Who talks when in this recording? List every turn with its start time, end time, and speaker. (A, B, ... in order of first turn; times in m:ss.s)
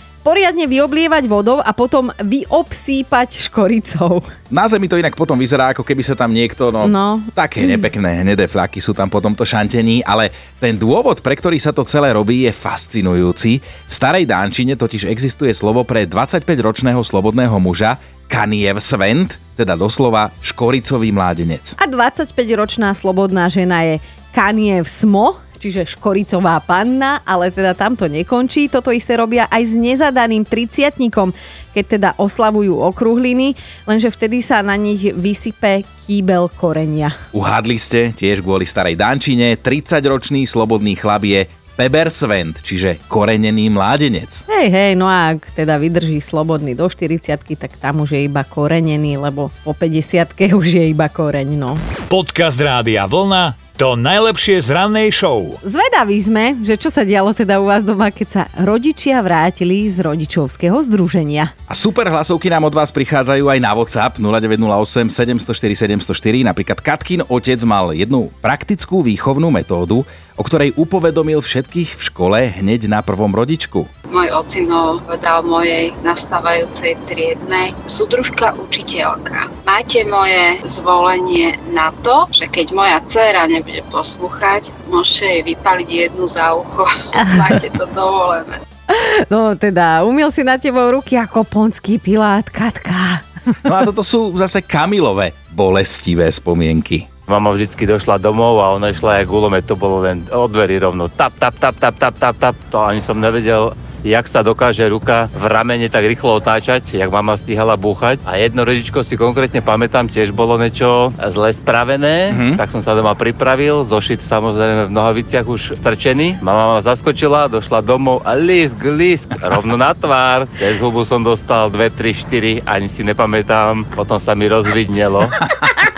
0:00.2-0:04.3 A
0:04.5-0:21.8 B
0:06.8-0:07.8 A
0:21.8-0:37.1 A
0:37.3-0:44.4 B
0:44.5-0:51.8 A
0:52.1-0:55.6 C
0:55.6-1:01.5 A
1:01.7-1:13.9 B
1:14.1-1:28.6 D
1:28.9-1:33.2 A
1:33.6-1:37.1 B
1:37.3-2:05.4 E
1:52.3-1:52.6 B